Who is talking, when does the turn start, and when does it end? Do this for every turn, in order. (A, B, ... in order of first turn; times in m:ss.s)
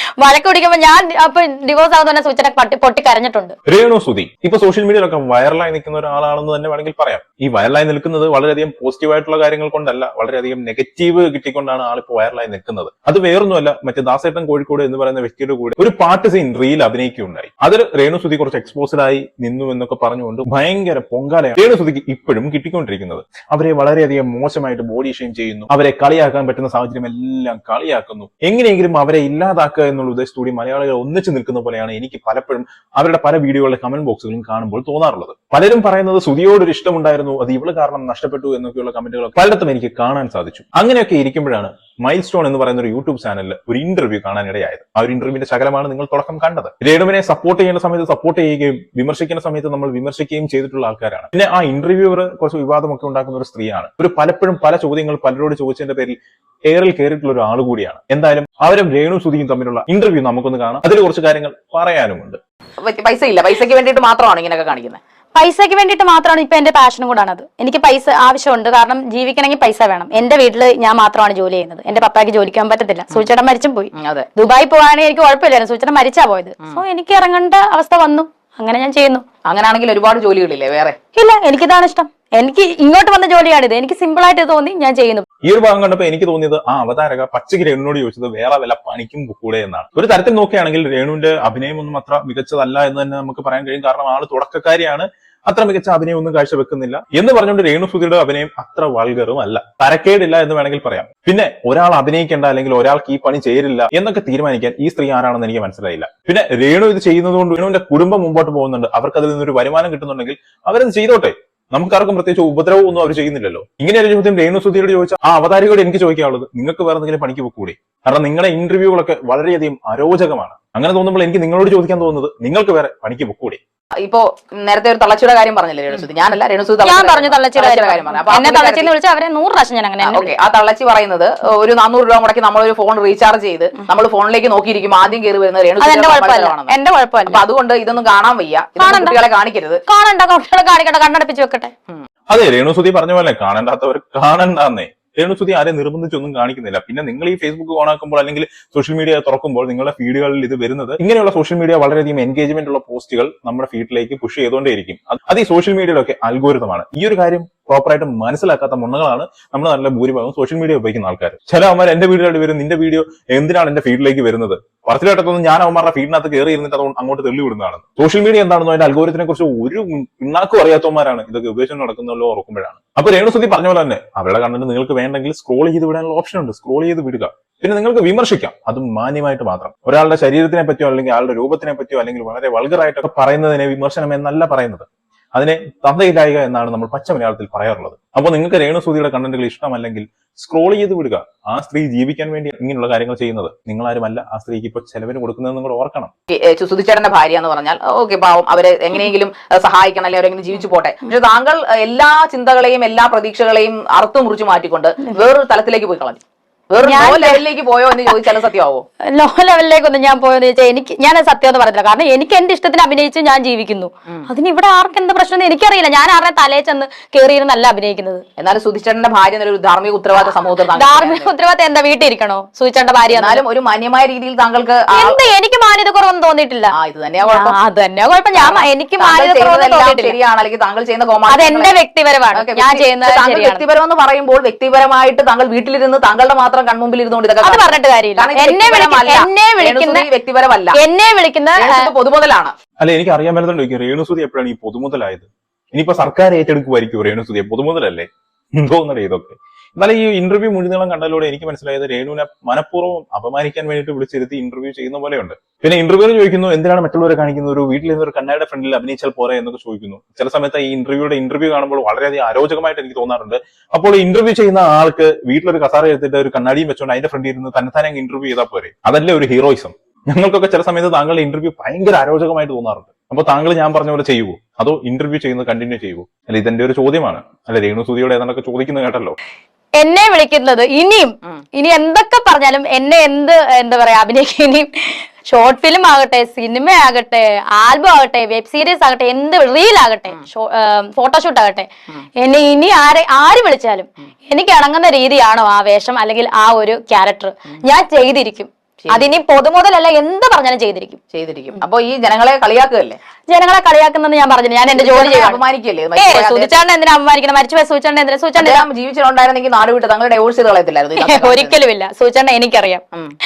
0:00.2-0:03.5 A
0:03.6-0:56.2 B
0:56.7-1:02.4 B
1:02.8-1:05.0 C
1:05.3-1:19.2 A
1:14.0-1:14.3 C
1:19.4-1:21.0 C
1:21.2-1:25.2 A
1:25.4-2:03.6 B
2:04.0-2:08.9 C
2:06.8-2:10.3 A
2:10.0-2:19.8 C
2:15.8-2:17.4 A
2:18.8-2:19.2 A
2:19.9-2:21.7 A
2:22.3-3:16.1 B
3:16.3-3:26.2 C
3:26.7-3:28.8 C
3:26.8-3:28.2 A
3:29.1-3:38.2 A
3:38.4-3:41.3 C
3:40.1-3:43.4 A
3:43.1-3:45.2 C
3:44.9-3:50.1 A
3:46.7-3:47.6 C
3:48.4-3:51.7 C
3:51.3-3:53.6 A
3:52.3-4:00.8 C
3:57.4-4:00.0 A
4:00.7-4:01.9 A
4:01.6-4:02.5 C
4:02.8-4:39.2 B
4:39.8-4:51.7 A
4:52.2-5:01.0 A
4:58.8-4:59.2 C
5:01.1-5:03.0 C
5:03.3-5:05.4 A
5:04.7-5:06.6 C
5:06.0-5:08.6 A
5:08.4-5:11.6 C
5:11.0-5:12.8 A